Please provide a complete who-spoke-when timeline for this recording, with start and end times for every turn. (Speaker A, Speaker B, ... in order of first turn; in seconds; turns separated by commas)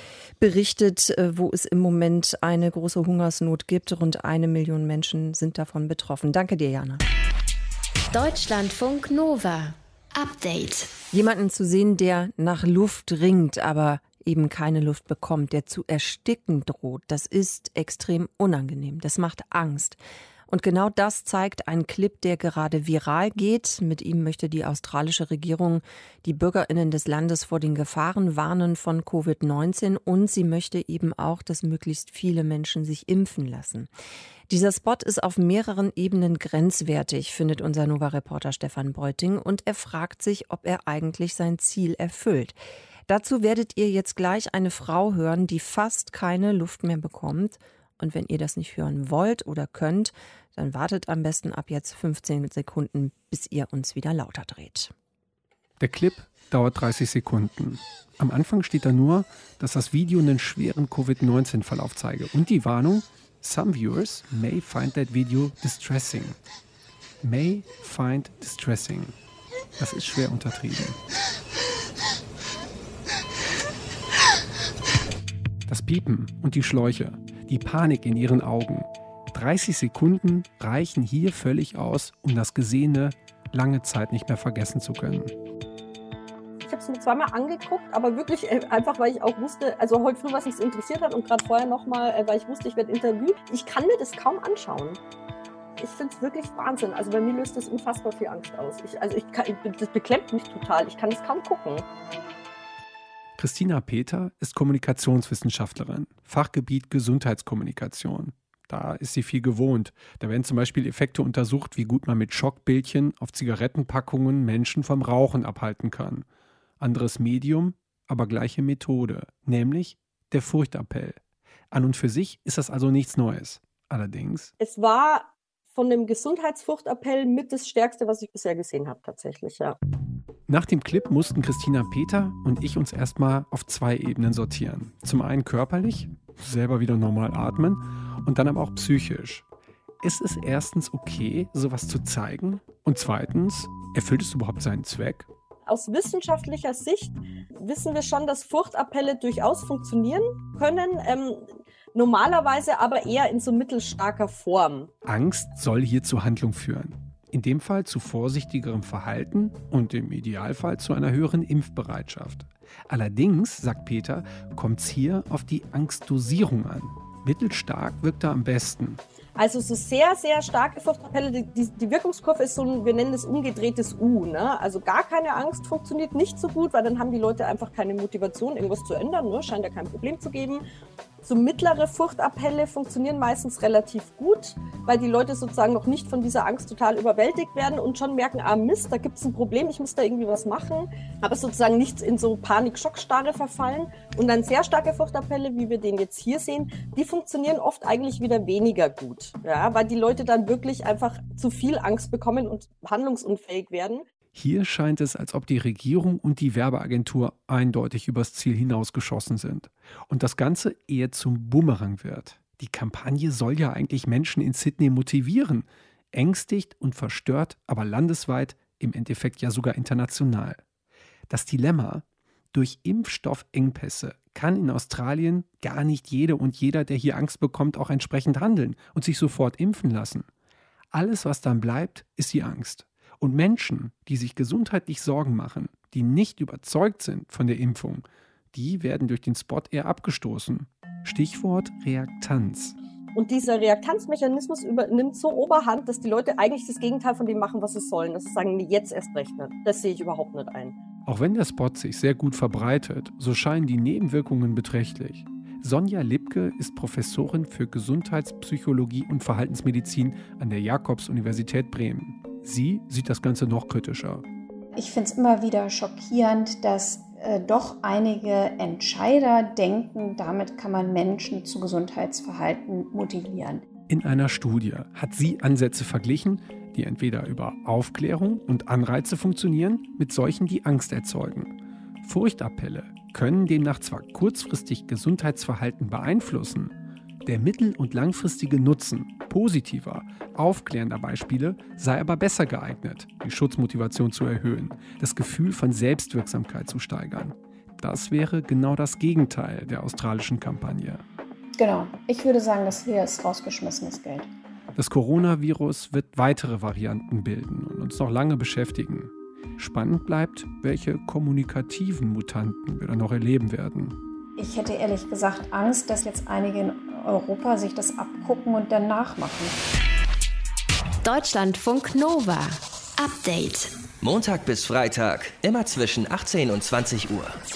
Speaker A: 0.4-7.0, Speaker B: 8.1-10.9, Speaker A: 11.1-33.9, Speaker A: 34.5-54.9, Speaker C: 55.8-66.4, Speaker C: 67.2-69.2, Speaker C: 69.8-71.0, Speaker C: 75.7-85.3, Speaker D: 86.6-95.0, Speaker D: 95.8-101.9, Speaker C: 103.4-116.2, Speaker C: 116.8-121.2, Speaker C: 121.7-124.5, Speaker D: 124.6-129.8, Speaker C: 130.5-139.4, Speaker C: 140.0-145.3, Speaker D: 145.7-154.9, Speaker C: 155.1-169.0, Speaker D: 169.4-180.6, Speaker D: 181.2-204.0, Speaker C: 204.3-220.6, Speaker C: 221.3-230.3, Speaker C: 230.9-242.8, Speaker D: 243.2-250.8, Speaker C: 251.1-264.2, Speaker E: 264.8-273.6, Speaker C: 273.9-286.7, Speaker C: 287.3-301.0, Speaker E: 301.6-304.3, Speaker C: 304.8-314.0, Speaker E: 314.4-319.6, Speaker B: 321.0-323.7, Speaker F: 324.0-327.4